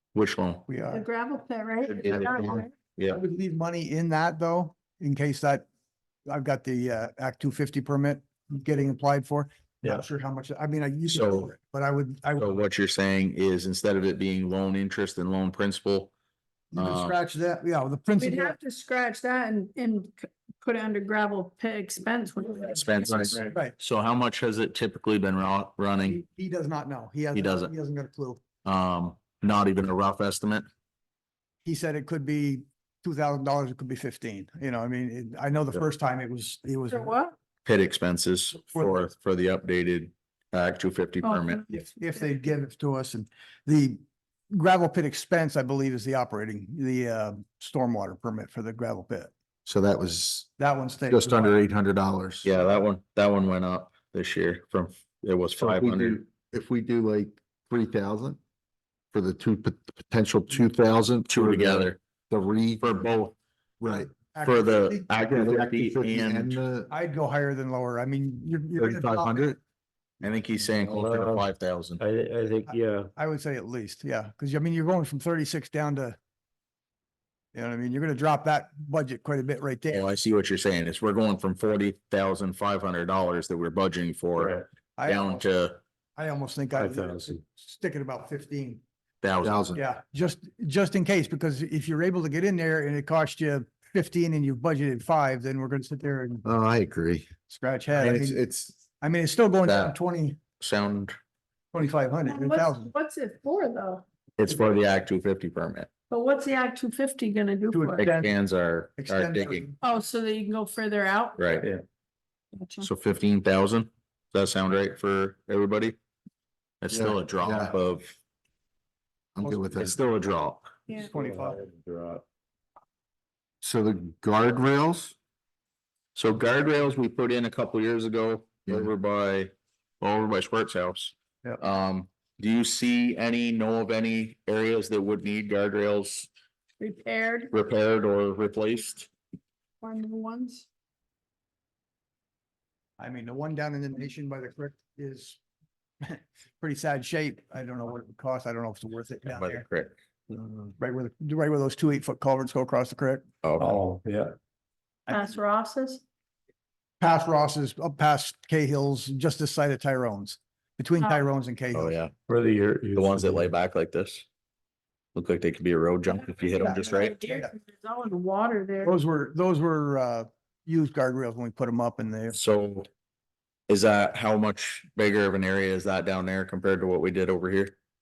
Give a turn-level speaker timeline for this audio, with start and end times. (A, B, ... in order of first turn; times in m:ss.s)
0:00.1-0:00.7 A
0:00.7-0:01.0 B
0:00.9-0:02.7 C
0:02.0-0:03.2 A
0:02.0-0:02.6 D
0:03.1-0:05.6 B
0:06.3-0:12.6 B
0:11.1-0:11.5 A
0:12.4-0:16.1 A
0:16.7-0:17.2 A
0:16.7-0:18.6 B
0:18.2-0:23.2 C
0:22.7-0:26.2 A
0:23.1-0:23.4 D
0:23.5-0:23.8 B
0:26.0-0:28.4 B
0:27.3-0:27.7 A
0:28.6-0:30.6 A
0:31.6-0:37.2 B
0:36.9-0:37.3 C
0:37.6-0:41.6 A
0:41.2-0:42.2 C
0:41.7-0:49.3 B
0:49.6-0:50.5 D
0:50.6-0:51.6 B
0:51.1-0:52.4 D
0:52.4-0:56.2 A
0:55.6-0:58.4 D
0:59.1-1:02.8 D
1:01.3-1:02.0 A
1:02.8-1:03.4 A
1:03.8-1:04.1 D
1:04.3-1:05.2 B
1:04.4-1:06.6 A
1:05.2-1:06.9 D
1:06.9-1:09.5 B
1:08.8-1:09.6 D
1:10.2-1:12.0 A
1:10.8-1:11.4 E
1:12.0-1:13.1 E
1:12.6-1:16.2 B
1:17.5-1:20.1 B
1:19.9-1:25.8 A
1:24.4-1:24.6 E
1:25.0-1:25.5 B
1:26.2-1:28.8 B
1:26.8-1:27.4 E
1:29.2-1:29.6 A
1:29.4-1:29.8 D
1:29.7-1:36.5 B
1:36.4-1:37.3 D
1:37.5-1:38.4 B
1:37.9-1:38.8 D
1:39.0-1:40.4 B
1:39.6-1:39.9 A
1:40.6-1:41.2 A
1:41.7-1:42.9 B
1:42.2-1:44.0 C
1:44.4-1:45.9 A
1:46.1-1:48.1 C
1:47.7-1:48.4 B
1:48.0-1:49.7 A
1:49.0-1:49.8 B
1:49.8-1:51.5 C
1:51.4-1:51.7 A
1:52.5-1:52.9 C
1:52.8-1:56.0 A
1:56.8-1:58.2 A
1:56.9-1:57.8 D
1:59.3-2:00.0 D
1:59.7-2:00.7 A
2:00.9-2:01.6 B
2:01.1-2:02.2 E
2:03.6-2:05.1 D
2:06.1-2:16.3 A
2:16.8-2:17.5 C
2:17.5-2:19.1 A
2:19.8-2:20.7 C
2:23.0-2:25.4 B
2:26.0-2:29.6 B
2:29.3-2:29.9 A
2:30.3-2:33.3 B
2:33.4-2:33.8 A
2:33.6-2:34.3 E
2:35.1-2:35.3 B
2:35.1-2:36.0 C
2:37.0-2:42.0 B
2:41.0-2:41.3 C
2:41.7-2:42.1 A
2:42.3-2:43.5 E
2:42.9-2:44.2 A
2:45.1-2:47.2 A
2:46.5-2:49.0 C
2:46.6-2:47.5 B
2:48.8-2:52.4 B
2:52.3-2:52.9 A
2:53.7-2:57.7 A